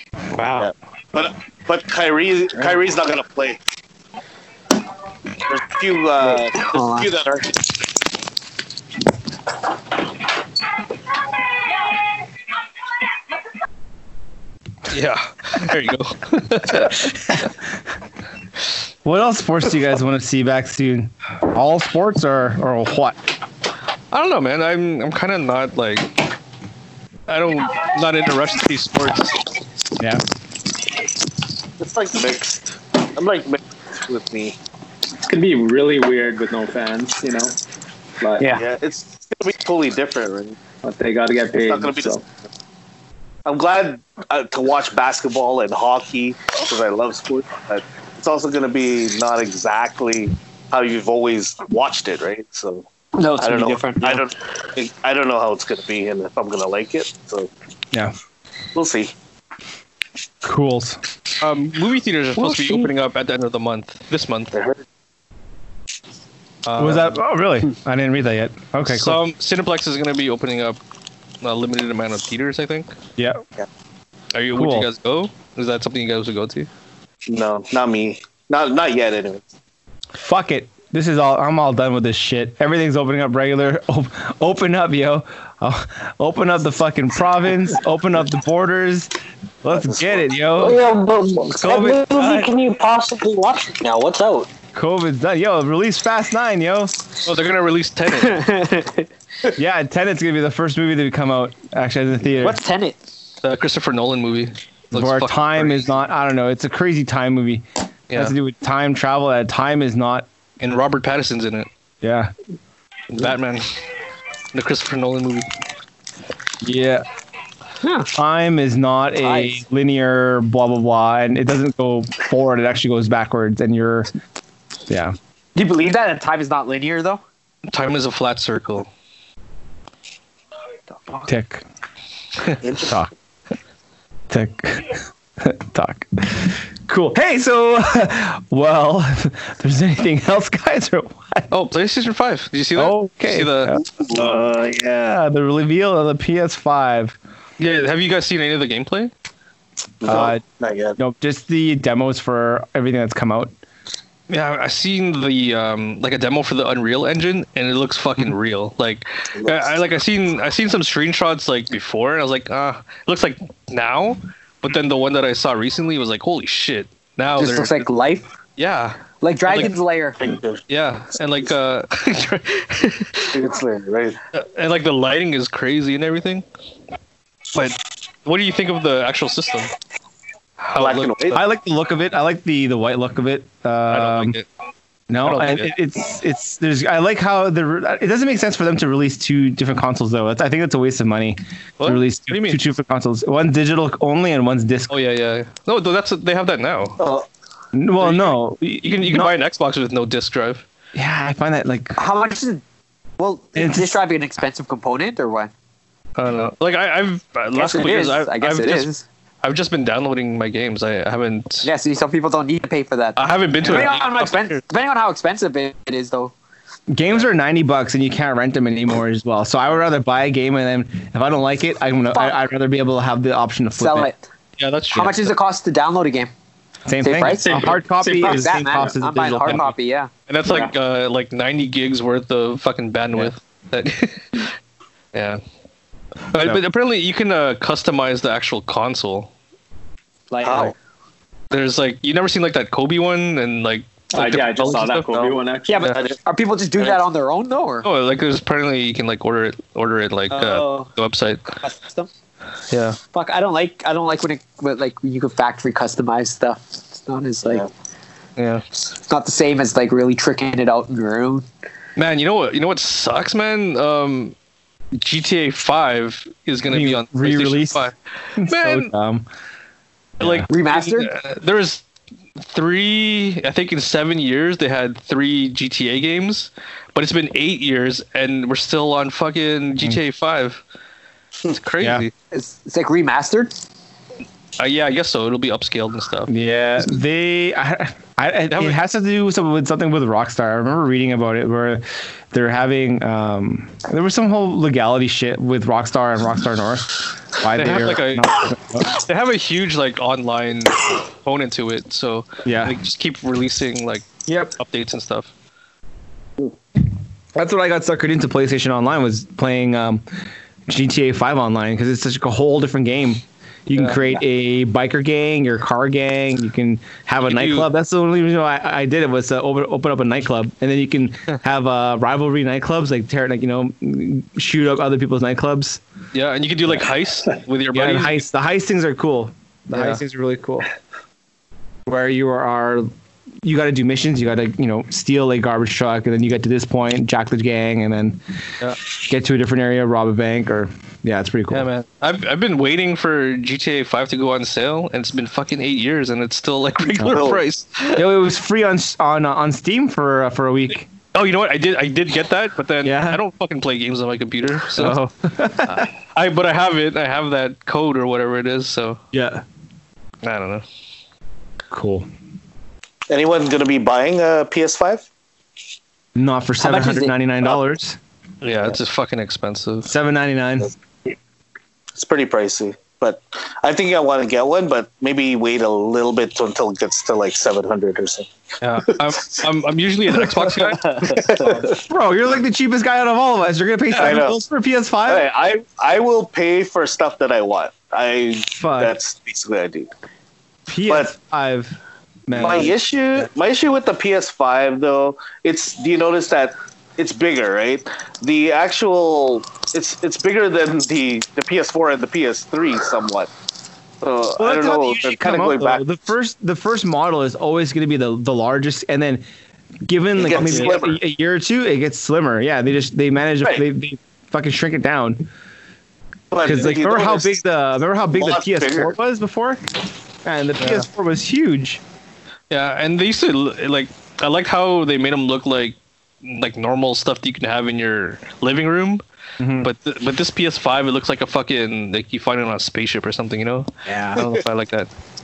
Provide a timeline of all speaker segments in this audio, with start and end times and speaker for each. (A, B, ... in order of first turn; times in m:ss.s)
0:00.3-0:00.7 A
0:00.6-0:03.6 B
0:05.5-0:07.5 B
0:06.2-0:07.1 A
0:14.9-0:17.4 C
0:19.0-0:23.2 D
0:24.1-0:26.1 C
0:27.3-0:29.4 C
0:31.8-0:34.6 B
0:35.2-0:37.6 E
0:38.2-0:38.5 E
0:38.5-0:40.6 B
0:40.8-0:42.2 E
0:41.5-0:42.2 B
0:43.5-0:52.9 B
0:53.2-0:54.2 A
0:53.4-0:57.5 B
0:58.7-0:59.1 B
1:00.4-1:01.0 D
1:01.4-1:04.5 C
1:02.4-1:02.9 A
1:04.5-1:04.8 B
1:06.6-1:07.2 C
1:06.8-1:09.2 D
1:08.9-1:10.8 C
1:11.4-1:12.9 C
1:13.2-1:13.4 D
1:14.3-1:16.7 C
1:14.5-1:14.9 D
1:17.3-1:19.4 B
1:20.2-1:29.1 D
1:29.6-1:30.8 D
1:29.7-1:30.3 B
1:30.6-1:34.5 F
1:31.5-1:32.5 D
1:34.7-1:37.0 D
1:37.2-1:38.5 C
1:38.2-1:39.1 A
1:39.6-1:42.6 D
1:42.4-1:43.0 A
1:43.4-1:45.8 C
1:44.9-1:50.3 D
1:48.1-1:48.4 C
1:50.6-1:51.7 C
1:52.0-1:52.3 D
1:53.1-1:53.7 C
1:54.5-1:55.5 C
1:56.6-1:57.0 D
1:57.8-1:58.1 A
1:58.2-2:04.1 D
1:59.2-1:59.6 A
2:04.9-2:05.2 D
2:05.6-2:07.2 A
2:07.7-2:08.9 C
2:10.9-2:11.3 A
2:11.3-2:11.6 D
2:12.6-2:12.9 B
2:12.8-2:13.1 D
2:14.3-2:21.5 D
2:21.5-2:23.8 C
2:22.8-2:27.2 D
2:24.0-2:24.5 B
2:27.6-2:29.1 C
2:30.0-2:31.0 B
2:30.0-2:30.4 D
2:31.0-2:33.5 D
2:34.3-2:47.8 C
2:39.4-2:39.8 B
2:47.4-2:48.3 A
2:48.6-2:49.7 C
2:49.2-2:50.2 A
2:50.2-2:50.6 B
2:50.7-2:53.3 C
2:53.3-2:54.2 B
2:54.3-2:56.4 C
2:57.5-2:59.7 C
3:00.6-3:01.4 C
3:00.8-3:01.4 B
3:01.3-3:04.4 D
3:03.9-3:04.5 C
3:05.1-3:14.9 D
3:05.2-3:05.7 C
3:11.8-3:12.6 C
3:14.9-3:17.0 C
3:17.0-3:17.3 B
3:17.7-3:19.3 D
3:18.0-3:20.6 C
3:20.9-3:22.0 D
3:22.0-3:22.6 A
3:23.2-3:25.5 A
3:23.6-3:24.0 D
3:26.2-3:28.9 C
3:27.5-3:29.0 A
3:29.4-3:31.7 C
3:31.6-3:36.3 A
3:33.2-3:34.6 C
3:36.9-3:44.1 D
3:42.1-3:42.4 A
3:43.8-3:44.2 A
3:44.6-3:45.3 C
3:44.9-3:46.3 A
3:46.9-3:49.7 D
3:47.0-3:50.7 A
3:47.2-3:48.9 E
3:50.3-3:54.5 C
3:55.1-3:55.4 C
3:56.3-3:59.3 C
4:00.3-4:00.7 A
4:00.4-4:00.7 B
4:01.5-4:05.1 C
4:04.1-4:05.8 E
4:05.7-4:07.9 A
4:05.9-4:06.2 B
4:07.8-4:11.5 C
4:10.3-4:10.9 A
4:11.6-4:12.1 A
4:12.7-4:13.0 C
4:13.1-4:17.7 A
4:18.4-4:18.6 C
4:18.9-4:21.5 A
4:22.0-4:24.4 C
4:25.0-4:28.9 C
4:26.7-4:29.3 D
4:30.2-4:30.5 D
4:30.2-4:31.8 C
4:30.5-4:31.1 A
4:32.4-4:40.6 C
4:41.5-4:42.1 C
4:41.8-4:42.1 D
4:42.3-4:43.6 A
4:44.6-4:46.3 C
4:46.3-4:58.9 D
4:48.5-4:48.8 C
4:57.6-4:58.3 C
4:58.9-5:04.1 C
5:02.4-5:02.8 D
5:04.3-5:04.5 D
5:04.6-5:05.3 C
5:07.4-5:10.0 D
5:10.7-5:25.8 D
5:13.7-5:14.0 C
5:17.2-5:17.7 C
5:26.1-5:28.2 C
5:27.7-5:30.7 D
5:29.7-5:30.0 C
5:31.9-5:32.9 D
5:33.4-5:38.2 D
5:39.0-5:41.7 D
5:41.5-5:48.0 C
5:47.1-5:47.4 B
5:47.9-5:50.9 D
5:51.1-5:55.0 C
5:52.8-5:53.2 D
5:54.7-5:55.9 D
5:55.6-5:59.0 C
5:59.1-5:59.4 D
6:00.2-6:00.6 C
6:01.7-6:02.1 D
6:03.1-6:05.1 B
6:06.2-6:08.0 D
6:06.6-6:07.1 A
6:08.4-6:09.9 C
6:09.8-6:10.7 D
6:12.0-6:18.3 B
6:18.6-6:21.2 C
6:21.0-6:21.8 B
6:21.8-6:25.3 D
6:24.0-6:24.4 B
6:25.1-6:29.9 B
6:28.5-6:29.0 D
6:30.7-6:32.8 D
6:30.9-6:31.1 B
6:32.3-6:43.3 B
6:44.0-6:45.8 B
6:44.4-6:49.2 D
6:49.9-6:55.3 D
6:50.2-6:51.0 B
6:50.4-6:50.8 C
6:56.3-6:57.4 B
6:56.4-6:59.6 D
6:56.5-6:56.8 C
6:58.1-6:58.9 B
7:00.2-7:01.8 D
7:00.6-7:00.9 C
7:02.5-7:09.0 C
7:09.4-7:09.7 D
7:09.6-7:14.9 C